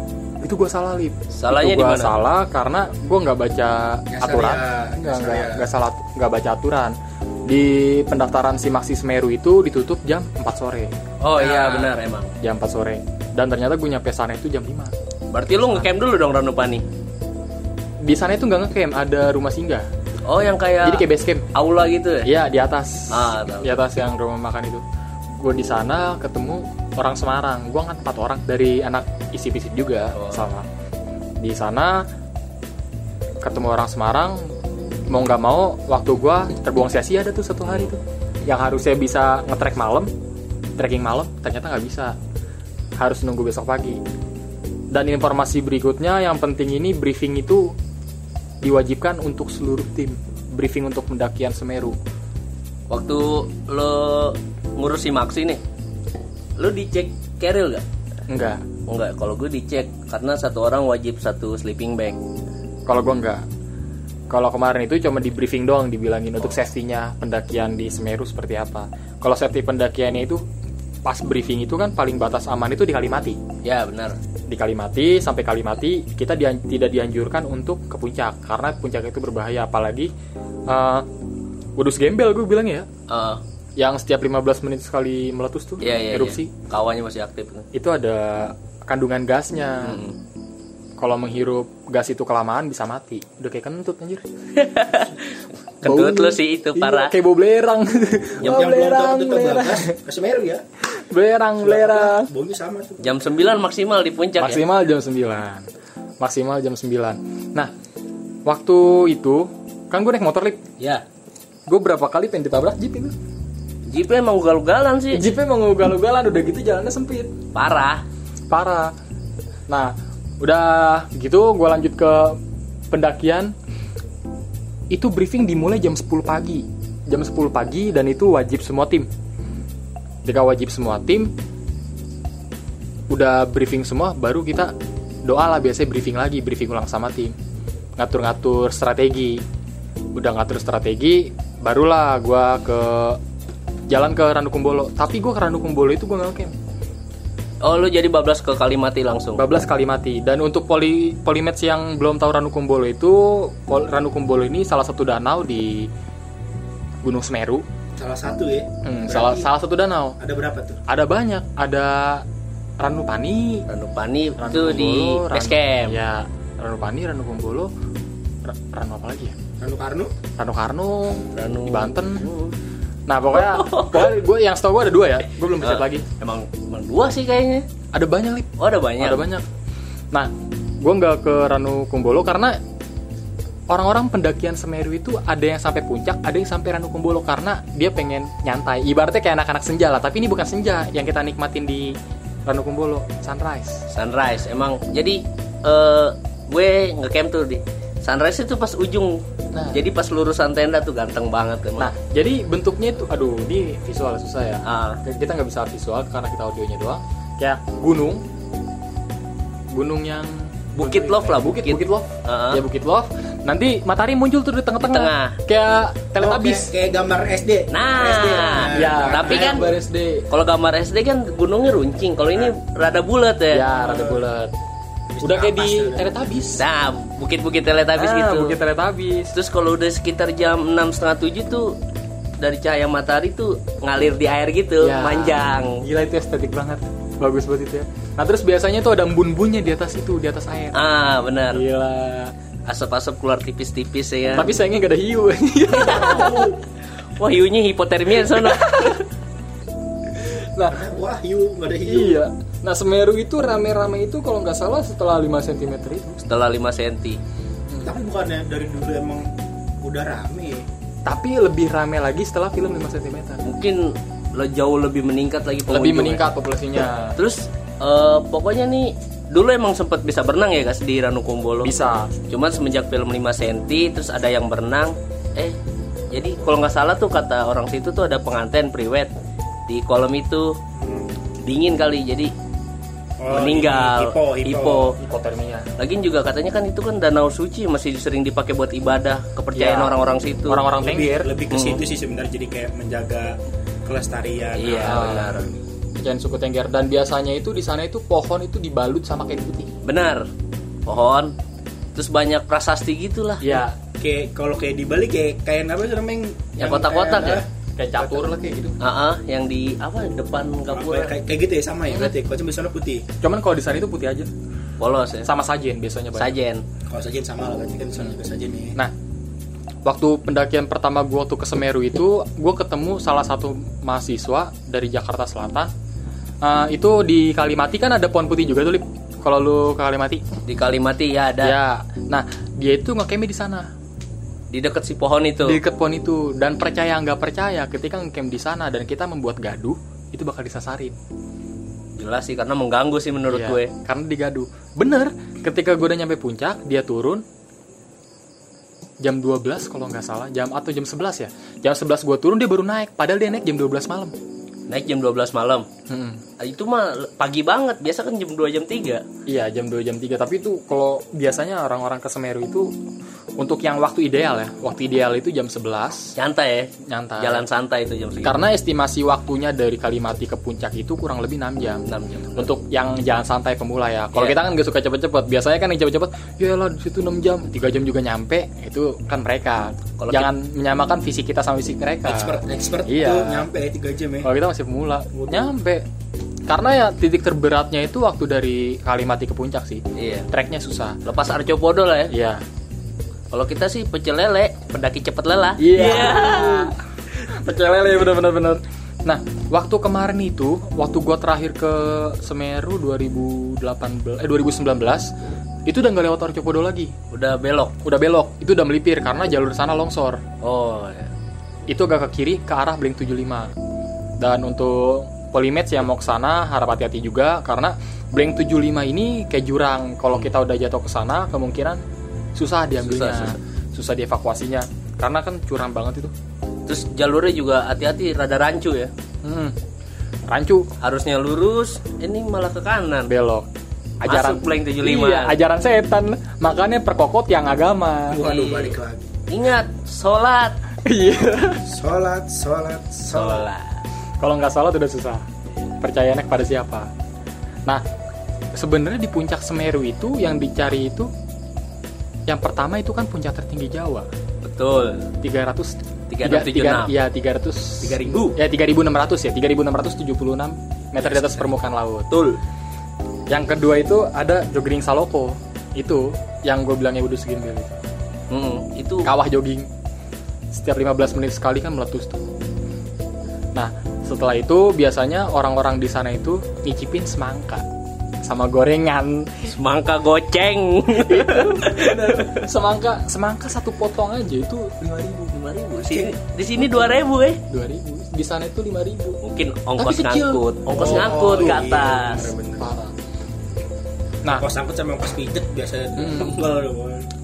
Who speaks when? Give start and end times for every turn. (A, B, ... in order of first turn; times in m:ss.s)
0:00.4-0:14.9 A
0:01.3-0:02.2 B
0:04.1-0:05.7 C
0:11.2-0:12.3 B
0:15.3-0:16.8 B
0:18.0-0:19.9 A
0:20.3-0:22.3 B
0:20.8-0:21.5 A
0:22.2-0:24.8 A
0:23.1-0:23.8 B
0:25.4-0:30.7 A
0:30.1-0:30.4 B
0:31.4-0:32.1 A
0:33.4-0:34.5 A
0:35.1-0:40.1 A
0:40.8-0:42.2 A
0:43.0-0:44.0 A
0:44.9-0:47.8 A
0:48.6-0:52.0 A
0:52.9-0:55.6 B
0:56.6-0:57.8 B
0:58.3-0:58.6 A
0:58.9-1:02.2 B
1:02.9-1:03.4 A
1:04.3-1:10.4 A
1:11.0-1:13.4 A
1:13.6-1:14.2 B
1:14.5-1:20.1 A
1:20.7-1:21.1 A
1:21.8-1:22.9 A
1:23.1-1:23.4 B
1:23.8-1:26.5 A
1:25.8-1:27.7 B
1:27.7-1:30.0 A
1:29.8-1:30.2 B
1:31.0-1:34.2 A
1:34.5-1:37.1 B
1:35.8-1:40.0 A
1:38.4-1:40.6 C
1:40.9-1:42.3 A
1:41.6-1:43.1 C
1:43.0-1:44.6 B
1:44.4-1:45.7 A
1:46.2-1:47.7 A
1:48.4-1:50.6 A
1:50.8-1:51.0 B
1:51.7-1:53.1 A
1:53.9-1:55.2 B
1:55.1-1:57.4 A
1:57.6-1:58.0 B
1:58.5-1:58.9 A
1:59.7-2:02.4 A
2:02.9-2:03.6 A
2:04.9-2:09.1 A
2:10.2-2:11.3 A
2:13.1-2:14.7 A
2:15.2-2:17.4 A
2:18.0-2:19.4 A
2:20.1-2:23.2 A
2:23.9-2:26.5 A
2:27.6-2:29.4 B
2:29.4-2:35.9 A
2:37.0-2:37.6 A
2:38.0-2:39.5 C
2:38.8-2:40.2 A
2:40.2-2:40.8 C
2:40.9-2:42.2 A
2:42.8-2:43.6 A
2:43.7-2:46.0 B
2:44.4-2:47.7 A
2:48.4-2:49.4 A
2:49.6-2:50.1 C
2:50.4-2:52.3 A
2:51.3-2:52.6 B
2:53.1-2:56.0 A
2:53.3-2:54.1 B
2:55.6-2:57.6 B
2:57.9-2:59.5 A
2:58.6-2:59.2 B
3:00.1-3:02.6 A
3:03.7-3:13.8 A
3:13.9-3:19.2 B
3:19.5-3:19.8 A
3:19.7-3:21.9 B
3:21.8-3:28.2 A
3:24.6-3:25.0 B
3:29.7-3:36.7 A
3:30.8-3:32.6 B
3:34.8-3:35.4 B
3:36.2-3:39.7 C
3:37.7-3:39.7 B
3:38.7-3:40.3 A
3:40.3-3:43.7 B
3:43.5-3:44.5 A
3:43.7-3:44.2 C
3:45.1-3:46.1 C
3:45.2-3:46.6 A
3:46.6-3:48.6 B
3:48.0-3:49.4 A
3:49.3-3:51.8 B
3:52.4-3:55.8 B
3:54.8-4:00.8 A
4:00.7-4:01.6 B
4:01.5-4:02.3 A
4:02.7-4:04.5 B
4:04.3-4:06.5 A
4:05.7-4:06.6 C
4:05.8-4:06.5 B
4:07.2-4:09.0 B
4:08.2-4:09.0 A
4:10.3-4:10.8 A
4:10.7-4:12.2 C
4:11.9-4:16.2 A
4:16.2-4:17.2 B
4:17.8-4:19.3 C
4:19.8-4:20.7 C
4:21.0-4:23.4 A
4:23.4-4:26.3 B
4:25.7-4:27.2 A
4:27.2-4:31.7 B
4:31.6-4:32.1 A
4:32.3-4:35.6 B
4:36.1-4:39.1 B
4:39.7-4:40.6 B
4:40.8-4:41.1 C
4:41.4-4:42.3 B
4:43.2-4:45.0 C
4:43.3-4:45.0 B
4:45.0-4:45.7 A
4:45.8-4:50.6 B
4:49.6-4:51.3 A
4:50.8-4:55.5 C
4:51.5-4:51.8 B
4:54.6-4:55.5 B
4:54.8-4:55.5 A
4:56.0-4:59.7 A
4:59.8-5:00.3 B
5:00.9-5:01.3 B
5:02.0-5:03.5 B
5:03.4-5:03.8 A
5:04.0-5:07.5 C
5:06.6-5:07.4 B
5:07.8-5:08.8 A
5:08.0-5:08.3 C
5:08.8-5:11.2 B
5:10.7-5:13.1 C
5:13.2-5:14.3 A
5:14.8-5:15.3 B
5:15.2-5:16.4 A
5:16.2-5:16.6 B
5:16.9-5:18.8 C
5:19.8-5:25.7 A
5:26.4-5:30.2 A
5:30.5-5:31.6 B
5:31.4-5:33.7 A
5:34.5-5:35.6 B
5:35.4-5:41.0 A
5:42.0-5:43.7 B
5:43.3-5:47.2 A
5:49.0-5:54.2 A
5:54.7-5:55.7 B
5:55.9-5:56.2 A
5:56.4-5:59.0 B
5:59.3-6:02.8 A
6:03.4-6:06.2 A
6:06.2-6:08.4 B
6:06.8-6:07.5 A
6:08.2-6:23.5 A
6:11.9-6:12.5 B
6:20.0-6:20.3 B
6:22.0-6:24.3 C
6:24.2-6:25.8 A
6:25.1-6:25.5 C
6:26.5-6:31.0 A
6:30.0-6:30.3 B
6:31.0-6:32.1 B
6:32.1-6:32.4 A
6:33.3-6:36.7 B
6:35.6-6:36.8 A
6:37.3-6:45.1 A
6:45.7-6:46.9 A
6:47.1-6:47.8 B
6:47.8-6:50.2 A
6:50.4-6:51.1 B
6:51.7-6:53.5 A
6:54.2-7:01.8 A
7:02.4-7:06.1 A
7:02.8-7:03.4 B
7:06.7-7:08.9 B
7:09.2-7:09.6 A
7:10.3-7:10.7 A
7:10.8-7:13.1 B
7:13.1-7:13.5 A
7:14.0-7:18.2 A
7:14.1-7:15.4 B
7:18.1-7:19.1 C
7:18.2-7:18.8 B
7:19.3-7:20.6 B
7:20.8-7:21.6 A
7:21.7-7:23.5 C
7:23.1-7:23.8 B
7:24.2-7:25.3 A
7:25.8-7:26.9 A
7:28.5-7:31.1 A
7:32.3-7:34.1 A
7:34.4-7:35.1 B
7:35.2-7:42.1 A
7:36.1-7:36.9 B
7:37.8-7:38.3 B
7:38.0-7:38.2 C
7:41.0-7:41.5 C
7:42.1-7:42.4 B
7:43.3-7:47.8 A
7:48.3-7:49.1 B
7:49.0-7:49.7 A
7:50.5-7:52.3 A
7:53.6-7:57.6 A
7:58.2-7:59.5 A
7:59.4-8:02.4 B
8:00.9-8:05.3 A
8:05.3-8:07.4 B
8:07.5-8:09.2 A
8:09.2-8:12.3 B
8:09.8-8:11.1 A
8:10.7-8:12.6 C
8:12.6-8:12.9 A
8:14.2-8:17.1 C
8:16.0-8:16.4 A